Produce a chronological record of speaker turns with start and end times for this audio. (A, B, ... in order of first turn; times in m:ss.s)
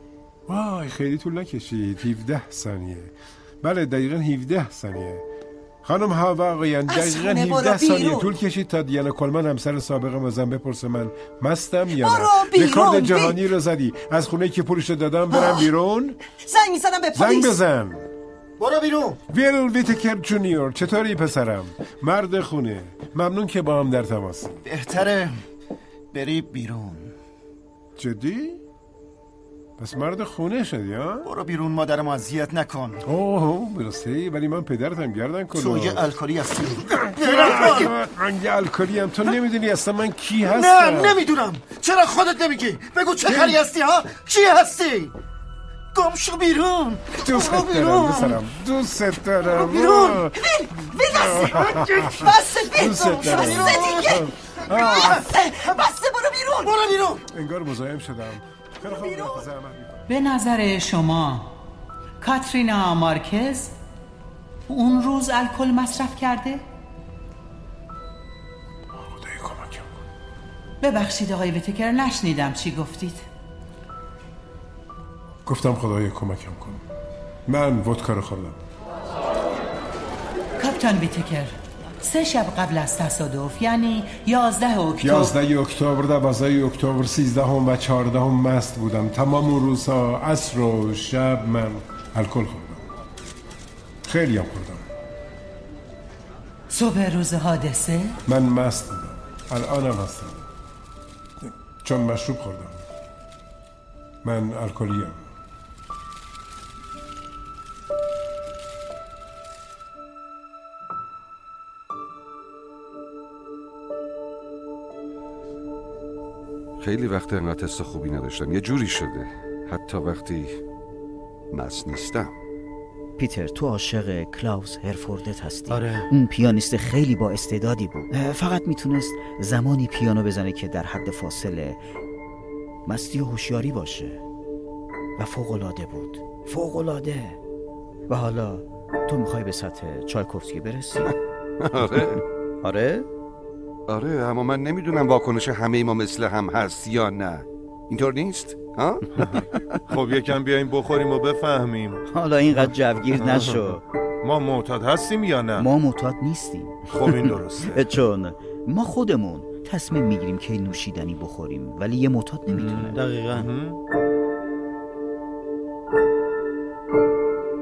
0:00.5-0:05.2 A
0:05.8-0:16.2 A
0:06.9-0:08.3 B
0:11.9-0:13.4 B
0:15.3-0:15.6 B
0:16.4-0:17.6 B
0:17.1-0:18.0 A
0:18.6-0:19.2 C
0:19.3-0:24.6 A
0:24.6-0:25.4 C
0:26.1-0:27.2 C
0:28.0-0:28.6 A
0:29.8-0:31.3 A
0:31.2-0:33.0 C
0:33.0-0:36.1 A
0:35.5-0:37.9 C
0:37.1-0:41.2 A
0:40.4-0:45.1 C
0:43.3-0:43.6 A
0:45.9-0:48.4 C
0:47.2-0:50.4 A
0:49.4-0:50.2 C
0:50.4-0:56.8 B
0:51.1-0:55.2 A
0:51.4-0:52.0 C
0:53.0-0:54.0 C
0:54.8-0:55.2 C
0:56.7-0:57.2 C
0:57.3-1:00.0 A
0:58.8-0:59.4 B
1:00.1-1:01.5 D
1:02.2-1:03.7 D
1:04.7-1:06.6 D
1:09.0-1:09.9 A
1:10.8-1:13.2 D
1:15.4-1:16.8 A
1:17.5-1:18.6 A
1:20.6-1:25.4 D
1:25.0-1:32.8 A
1:34.1-1:34.9 A
1:36.7-1:38.1 D
1:38.3-1:40.4 A
1:41.4-1:42.8 A
1:44.2-1:45.3 A
1:56.8-2:00.6 E
2:01.5-2:02.4 E
2:03.2-2:11.8 F
2:05.7-2:06.1 C
2:12.9-2:14.2 F
2:15.2-2:17.4 F
2:18.1-2:21.1 F
2:21.6-2:22.2 E
2:22.6-2:23.1 F
2:23.9-2:29.4 E
2:29.2-2:32.0 G
2:32.1-2:33.8 F
2:32.6-2:33.6 G
2:34.2-2:35.7 G
2:35.6-2:43.0 F
2:36.9-2:37.9 G
2:42.5-2:43.8 G
2:43.0-2:43.5 C